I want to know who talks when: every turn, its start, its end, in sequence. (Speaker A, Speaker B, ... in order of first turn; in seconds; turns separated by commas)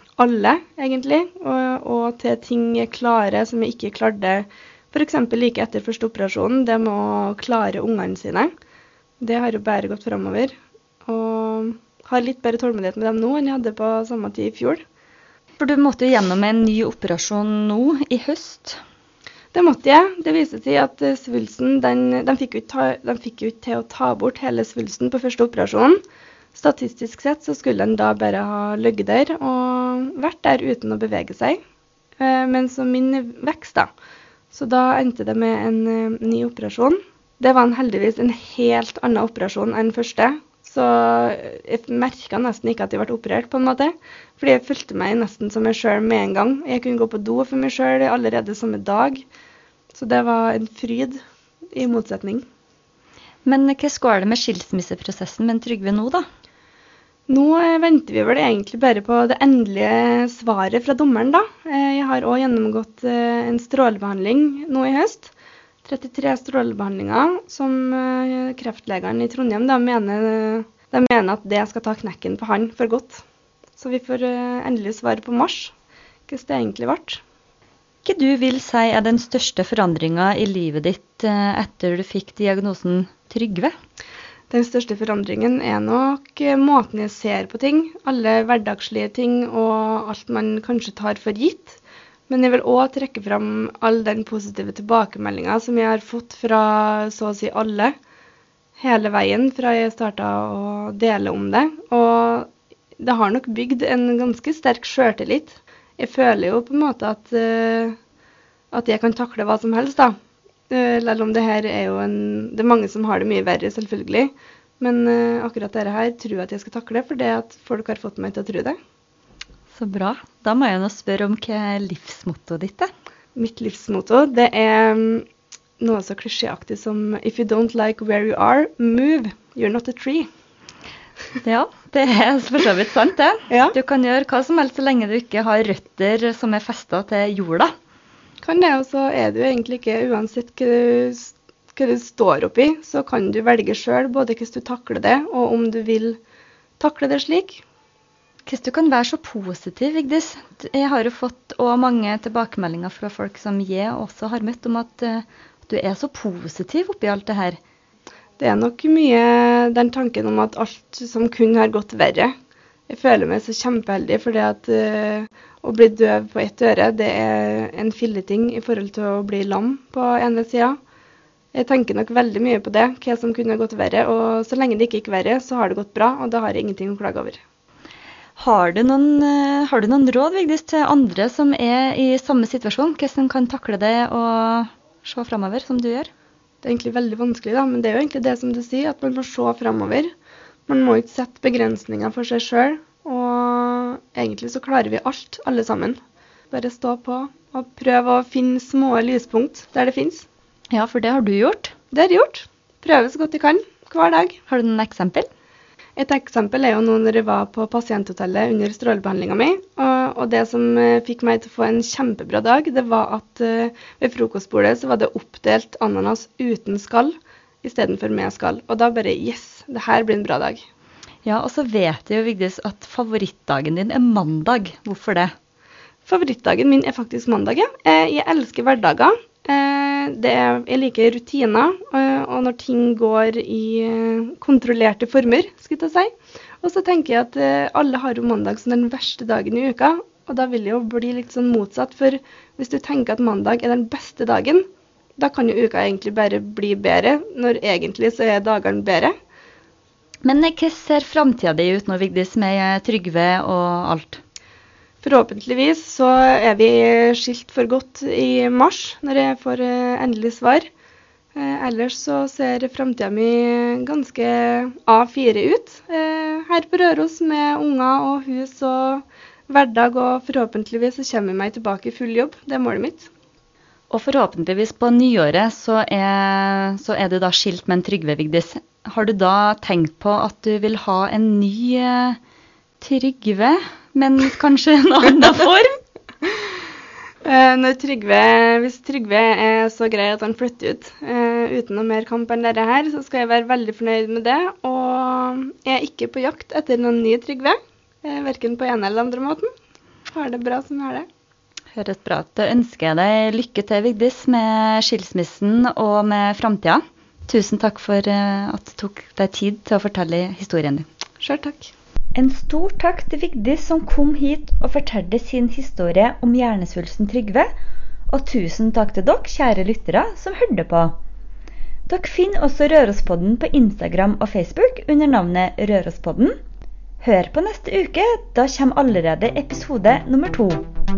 Speaker A: 0.2-8.5, Speaker A: 9.2-10.5, Speaker A: 11.1-14.8, Speaker B: 15.6-18.8, Speaker A: 19.5-26.0, Speaker A: 26.5-31.6, Speaker A: 32.2-33.9, Speaker A: 34.5-49.3, Speaker A: 49.9-51.2, Speaker A: 51.7-52.5, Speaker B: 53.5-56.2, Speaker A: 57.3-65.3, Speaker A: 65.8-73.2, Speaker A: 73.8-75.7, Speaker A: 76.3-77.2, Speaker B: 78.0-83.7, Speaker A: 84.5-97.9, Speaker A: 98.8-108.0, Speaker A: 108.7-110.2, Speaker A: 110.7-118.8, Speaker B: 119.7-122.9, Speaker A: 123.4-125.3, Speaker A: 125.8-130.3, Speaker B: 131.4-137.7, Speaker A: 133.5-133.8, Speaker A: 138.4-146.2, Speaker A: 146.8-147.6, Speaker B: 148.5-157.6, Speaker A: 158.4-162.3, Speaker A: 162.9-170.8, Speaker A: 171.5-177.4, Speaker B: 178.4-186.1, Speaker A: 186.6-190.1, Speaker A: 190.7-196.0, Speaker A: 196.5-200.3, Speaker B: 200.7-201.7, Speaker A: 201.9-204.4, Speaker B: 204.5-205.3, Speaker A: 206.0-220.6, Speaker B: 221.2-225.3, Speaker A: 226.1-244.7, Speaker A: 245.2-249.1, Speaker B: 250.2-254.2, Speaker A: 255.0-260.7, Speaker A: 261.4-273.1, Speaker B: 273.9-282.2, Speaker B: 282.8-285.8, Speaker A: 287.2-299.5, Speaker A: 300.1-301.1, Speaker B: 301.7-310.9, Speaker A: 311.2-311.7, Speaker B: 312.1-317.5, Speaker B: 318.1-320.9, Speaker B: 321.9-326.3, Speaker B: 327.0-330.7